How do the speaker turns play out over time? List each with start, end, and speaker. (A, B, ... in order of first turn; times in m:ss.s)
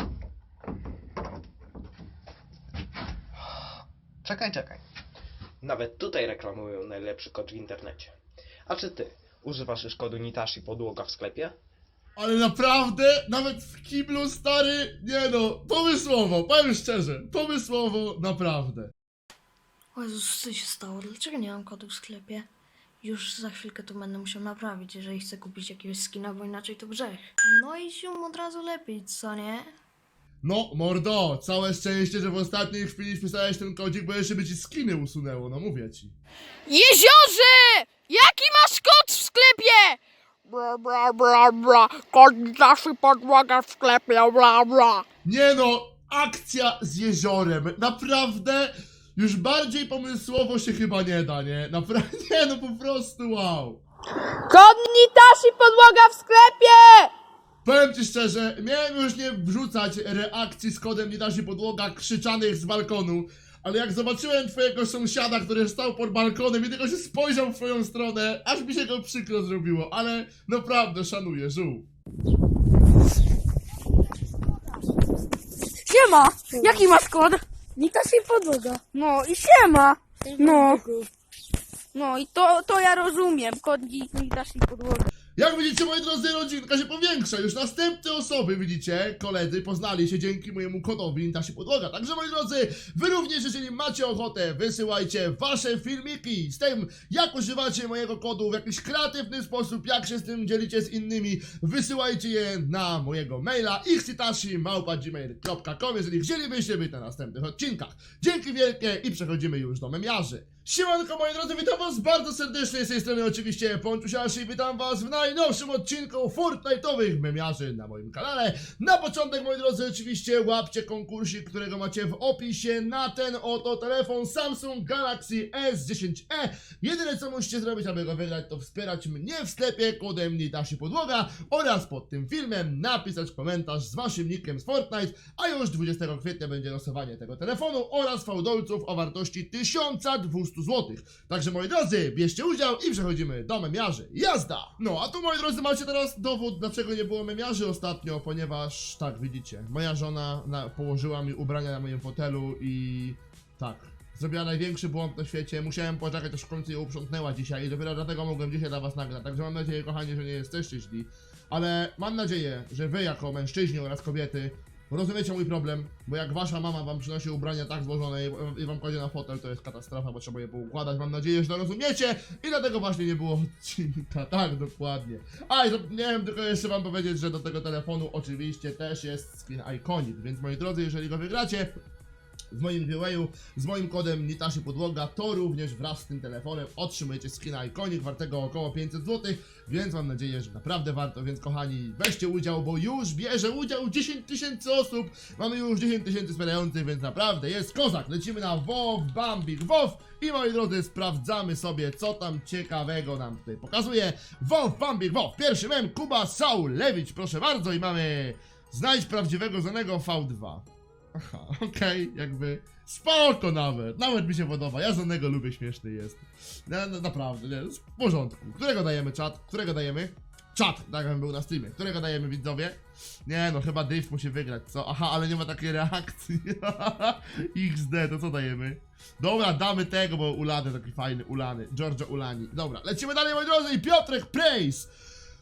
0:04.2-0:04.8 A
0:05.6-0:08.1 A
0:08.6-0:11.6 A
0:12.2-0:18.9 B
0:20.0-0:22.5 C
0:23.0-0:29.7 C
0:30.4-0:36.1 B
0:36.7-0:45.0 D
0:45.2-0:53.8 B
0:54.5-0:57.1 D
0:57.6-1:11.9 B
1:15.9-1:21.1 D
1:20.4-1:20.8 C
1:21.9-1:25.1 D
1:25.4-3:01.7 B
3:02.5-3:54.9 B